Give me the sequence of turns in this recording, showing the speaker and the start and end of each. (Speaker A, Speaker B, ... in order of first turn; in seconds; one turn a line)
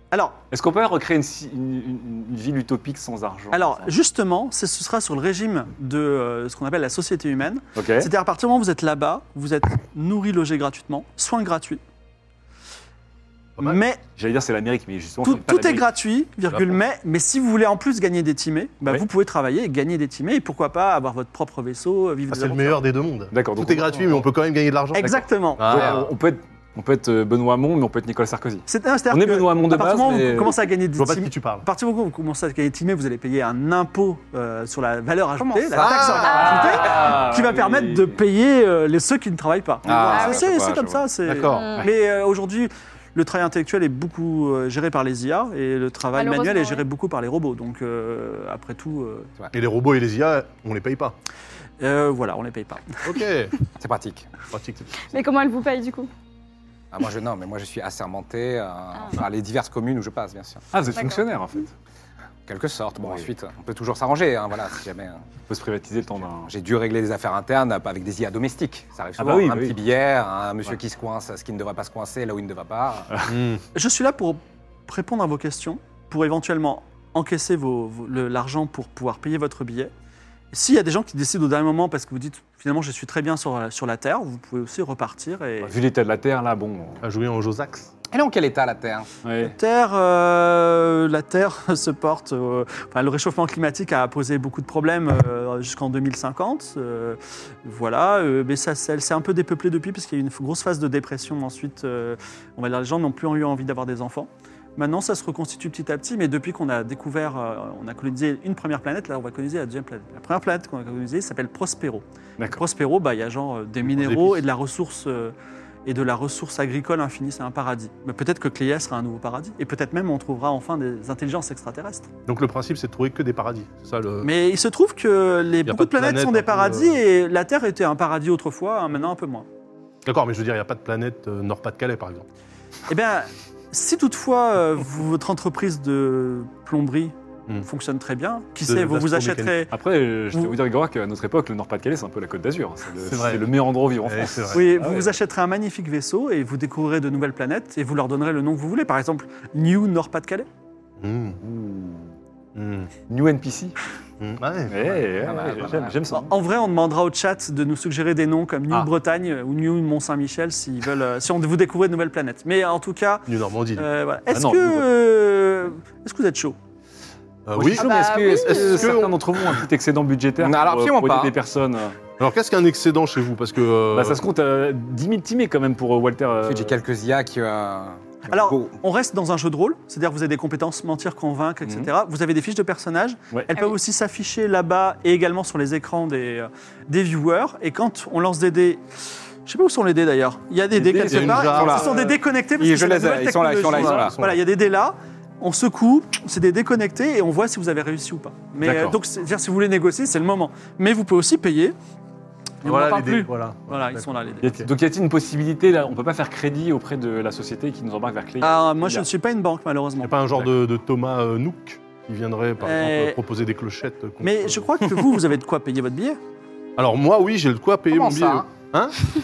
Speaker A: 0.1-0.4
Speaker B: 0.5-3.9
Speaker A: 3.5-11.8
Speaker B: 7.8-8.1
Speaker A: 13.6-14.0
Speaker B: 14.2-15.9
Speaker A: 15.2-22.8
Speaker B: 16.5-16.8
Speaker C: 22.3-26.1
Speaker B: 23.3-24.3
Speaker A: 24.9-25.8
Speaker B: 25.6-30.5
Speaker A: 28.7-49.3
Speaker C: 31.0-31.6
Speaker D: 35.4-37.1
Speaker C: 35.8-36.4
Speaker E: 36.2-36.9
Speaker B: 36.3-38.2
Speaker D: 39.9-41.1
Speaker E: 40.1-40.5
Speaker C: 41.2-41.6
Speaker E: 41.5-41.9
Speaker E: 46.1-46.8
Speaker C: 49.5-51.1
Speaker A: 51.8-53.0
Speaker C: 53.0-53.5
Speaker D: 53.8-54.4
Speaker C: 54.5-55.0
Speaker E: 55.1-56.1
Speaker D: 56.9-60.6
Speaker E: 58.9-59.2
Speaker B: 60.7-61.7
Speaker E: 61.0-61.2
Speaker D: 62.5-65.2
Speaker B: 63.0-63.3
Speaker B: 65.5-66.5
Speaker D: 66.5-73.1
Speaker B: 69.2-69.8
Speaker C: 73.3-73.6
Speaker A: 73.8-79.9
Speaker A: 80.5-85.7
Speaker B: 85.6-87.0
Speaker C: 87.0-87.9
Speaker D: 88.1-89.1
Speaker B: 89.2-89.5
Speaker A: 89.4-115.3
Speaker C: 113.8-114.4
Speaker A: 115.9-122.1
Speaker C: 122.3-124.3
Speaker A: 124.2-129.4
Speaker C: 125.7-127.0
Speaker C: 130.1-132.2
Speaker A: 132.9-139.7
Speaker C: 138.7-139.7
Speaker B: 139.7-145.2
Speaker C: 143.0-143.5
Speaker C: 144.0-144.7
Speaker A: 144.5-150.5
Speaker C: 151.0-151.4
Speaker B: 151.4-152.1
Speaker C: 152.5-152.9
Speaker B: 153.1-153.8
Speaker C: 154.2-155.1
Speaker B: 154.7-156.3
Speaker D: 155.2-156.1
Speaker A: 156.1-166.6
Speaker C: 163.3-163.9
Speaker B: 164.3-164.9
Speaker C: 167.5-169.2
Speaker B: 167.6-172.0
Speaker E: 167.8-169.0
Speaker D: 167.8-168.9
Speaker D: 170.4-171.3
Speaker C: 172.2-174.2
Speaker B: 173.9-176.8
Speaker D: 176.4-178.7
Speaker A: 178.3-188.8
Speaker B: 181.6-181.9
Speaker A: 189.4-201.7
Speaker C: 190.7-192.0
Speaker B: 190.9-192.0
Speaker D: 191.5-191.9
Speaker D: 192.6-194.2
Speaker C: 193.6-194.4
Speaker B: 198.6-199.0
Speaker A: 202.6-204.5
Speaker C: 202.6-204.7
Speaker B: 204.4-209.1
Speaker A: 208.4-210.2
Speaker C: 210.0-215.0
Speaker A: 212.6-213.2
Speaker A: 214.2-216.2
Speaker C: 216.8-218.9
Speaker D: 217.9-218.5